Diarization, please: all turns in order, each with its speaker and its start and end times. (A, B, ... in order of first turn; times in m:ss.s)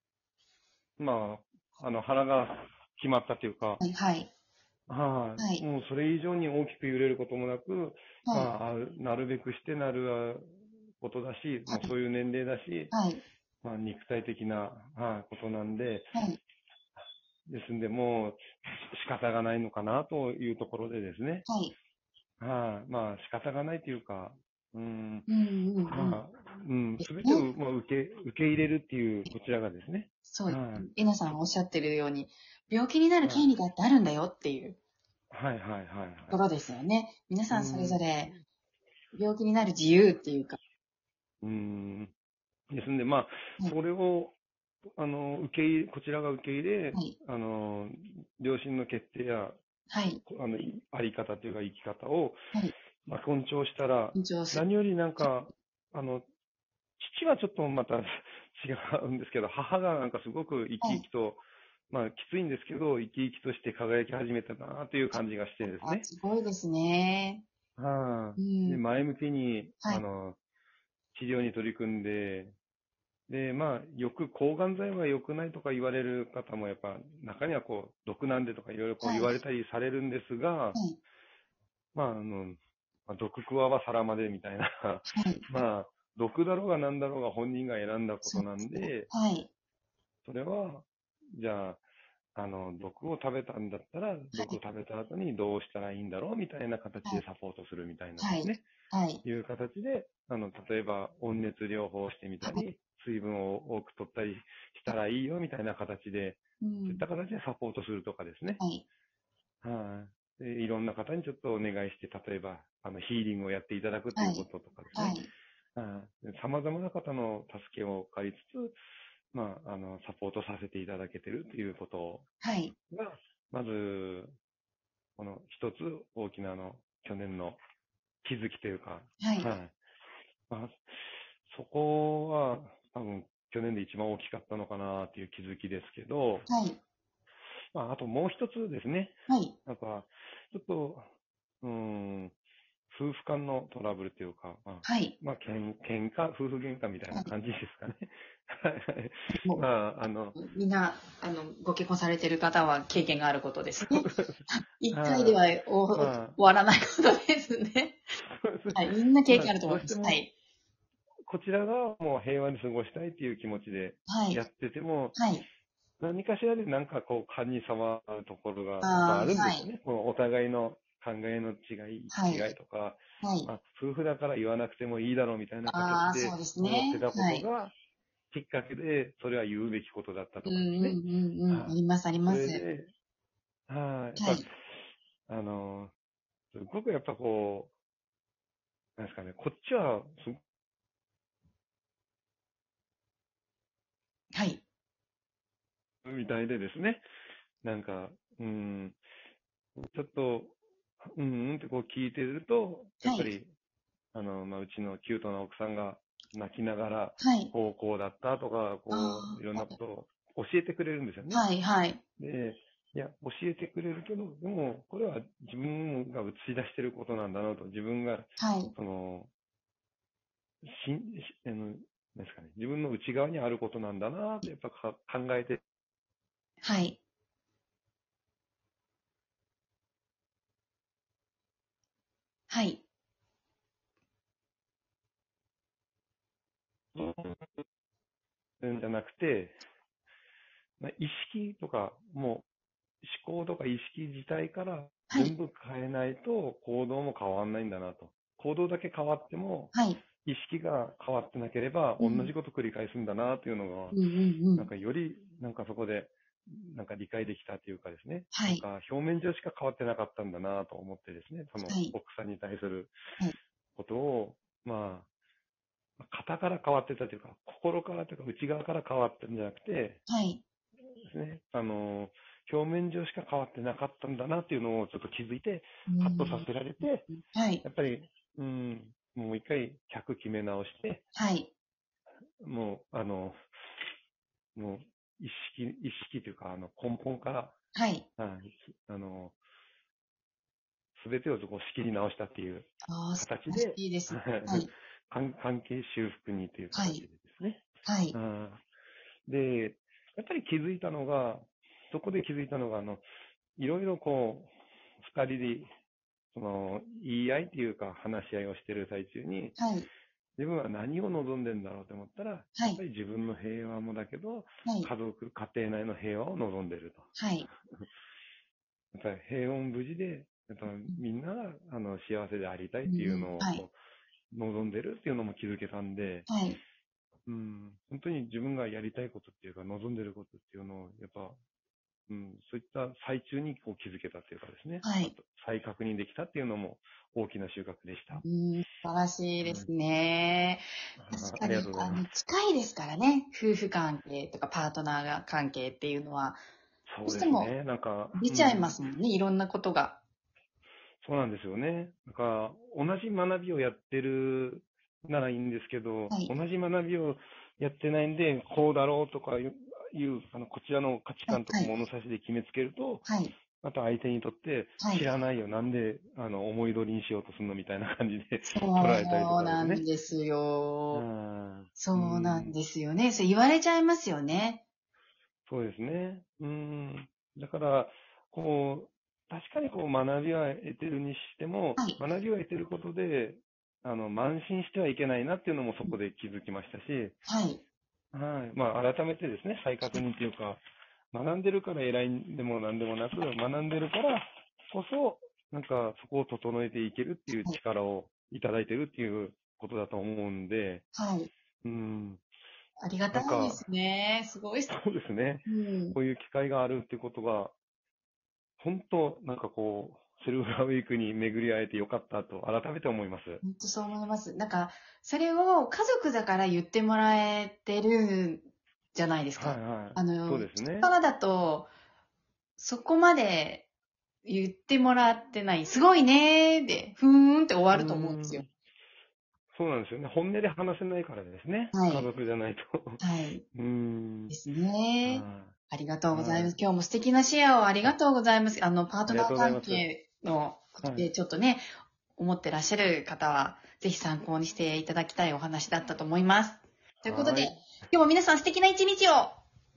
0:01.0-0:03.8 A
0:03.8-0:04.3 B
0:04.9-0:12.9 A
0:05.4-0:05.6 B
0:08.2-0:08.5 B
0:12.9-0:13.2 B
0:13.6-0:16.1 A
0:16.1-0:16.4 B
0:17.5-0:18.4 A
0:18.9-0:21.5 A
0:21.5-0:21.7 B
0:22.4-0:25.3 A
0:25.3-0:26.2 B
0:25.8-0:30.9 A
0:27.0-0:27.5 B
0:30.3-0:34.8 B
0:33.2-0:33.5 A
0:35.3-0:36.4 A
0:36.3-0:38.3 B
0:37.5-0:38.0 A
0:39.1-0:40.6 B
0:41.4-0:42.1 A
0:42.7-0:44.3 A
0:45.0-0:49.6 A
0:49.9-0:50.2 B
0:50.2-0:52.4 A
0:53.0-0:56.2 A
0:54.1-0:54.6 B
0:57.0-1:06.1 A
1:05.6-1:07.4 B
1:07.8-1:10.4 A
1:08.4-1:08.8 B
1:11.1-1:12.5 A
1:13.3-1:20.8 A
1:19.0-1:19.3 B
1:21.9-1:29.1 A
1:25.1-1:25.4 B
1:28.2-1:29.5 B
1:30.2-1:31.8 A
1:32.4-1:38.6 A
1:34.3-1:34.6 B
1:38.2-1:39.2 B
1:39.2-1:48.6 A
1:46.6-1:47.0 B
1:48.6-1:48.8 B
1:49.6-1:55.2 A
1:54.1-1:55.3 B
1:55.8-1:58.8 A
1:59.3-2:02.2 A
2:02.4-2:02.7 B
2:02.9-2:04.3 A
2:05.2-2:07.6 A
2:08.2-2:09.7 A
2:09.2-2:09.5 B
2:10.5-2:16.5 A
2:16.5-2:16.8 B
2:17.7-2:21.1 A
2:19.3-2:19.6 B
2:21.6-2:22.3 A
2:22.9-2:30.4 A
2:24.8-2:25.1 B
2:29.3-2:29.6 B
2:30.4-2:38.0 B
2:33.9-2:36.4 A
2:38.4-2:40.2 A
2:38.7-2:40.3 B
2:41.3-2:45.2 A
2:44.1-2:44.4 B
2:45.2-2:45.4 B
2:46.0-2:57.7 A
2:48.8-2:49.6 B
2:52.1-2:52.5 B
2:53.2-2:53.5 B
2:55.6-2:57.5 B
2:58.3-3:02.9 A
3:00.4-3:02.6 B
3:03.7-3:04.6 A
3:04.2-3:04.4 B
3:05.3-3:05.9 A
3:06.5-3:07.7 A
3:09.0-3:10.4 A
3:14.3-3:14.6 B
3:16.0-3:17.0 A
3:17.6-3:19.0 A
3:19.8-3:20.6 A
3:21.1-3:23.5 A
3:23.0-3:23.3 B
3:24.1-3:31.5 A
3:27.2-3:27.5 B
3:28.9-3:29.8 B
3:31.3-3:32.0 B
3:32.2-3:39.3 A
3:38.4-3:38.7 B
3:40.6-3:45.6 A
3:46.6-3:47.0 B
3:52.5-3:52.8 B
3:56.9-3:57.5 A
3:58.6-3:59.6 A
4:00.8-4:02.4 A
4:03.0-4:14.0 A
4:09.7-4:10.0 B
4:12.0-4:12.3 B
4:13.9-4:14.7 B
4:14.6-4:22.9 A
4:18.3-4:18.6 B
4:21.6-4:21.9 B
4:23.8-4:25.1 A
4:26.0-4:30.0 A
4:30.1-4:30.4 B
4:31.0-4:37.0 A
4:35.9-4:37.6 B
4:37.6-4:41.0 A
4:41.1-4:41.5 B
4:42.4-4:43.4 A
4:44.6-4:47.6 A
4:47.7-4:48.0 B
4:48.2-4:49.3 A
4:51.0-4:58.6 A
4:52.9-4:54.7 B
4:56.7-4:57.0 B
4:57.8-4:58.2 B
4:59.3-5:03.0 A
5:03.6-5:05.7 A
5:06.3-5:09.6 A
5:09.6-5:09.9 B
5:10.4-5:17.1 A
5:14.6-5:14.9 B
5:17.1-5:17.5 B
5:18.9-5:23.7 A
5:22.8-5:23.6 B
5:24.3-5:26.3 A
5:26.3-5:26.6 B
5:27.2-5:31.4 A
5:32.1-5:38.2 A
5:34.8-5:35.1 B
5:38.2-5:46.4 B
5:39.4-5:39.7 A
5:41.0-5:42.1 A
5:46.9-5:48.7 A
5:47.0-5:47.5 B
5:48.1-5:50.0 B
5:51.0-6:03.0 A
6:01.3-6:01.7 B
6:03.0-6:03.4 B
6:03.6-6:09.8 A
6:04.8-6:05.0 B
6:08.5-6:11.0 B
6:10.9-6:12.6 A
6:11.8-6:14.6 B
6:15.5-6:27.2 A
6:27.3-6:27.6 B
6:28.1-6:30.6 A
6:31.1-6:40.8 A
6:37.3-6:37.6 B
6:40.9-6:41.3 B
6:41.6-6:42.2 A
6:42.8-6:44.7 B
6:43.1-6:43.6 A
6:44.7-6:47.5 A
6:45.4-6:46.0 B
6:48.6-6:53.4 A
6:53.4-7:01.7 B
6:59.4-7:00.9 A
7:02.6-7:03.7 B
7:04.2-7:08.4 B
7:07.7-7:08.5 A
7:09.5-7:13.0 A
7:11.7-7:12.1 B
7:13.0-7:13.4 B
7:13.5-7:14.4 A
7:14.3-7:21.6 B
7:15.0-7:15.5 A
7:16.1-7:16.5 A
7:19.1-7:19.8 A
7:20.8-7:21.1 A
7:22.2-7:29.4 B
7:27.0-7:27.6 A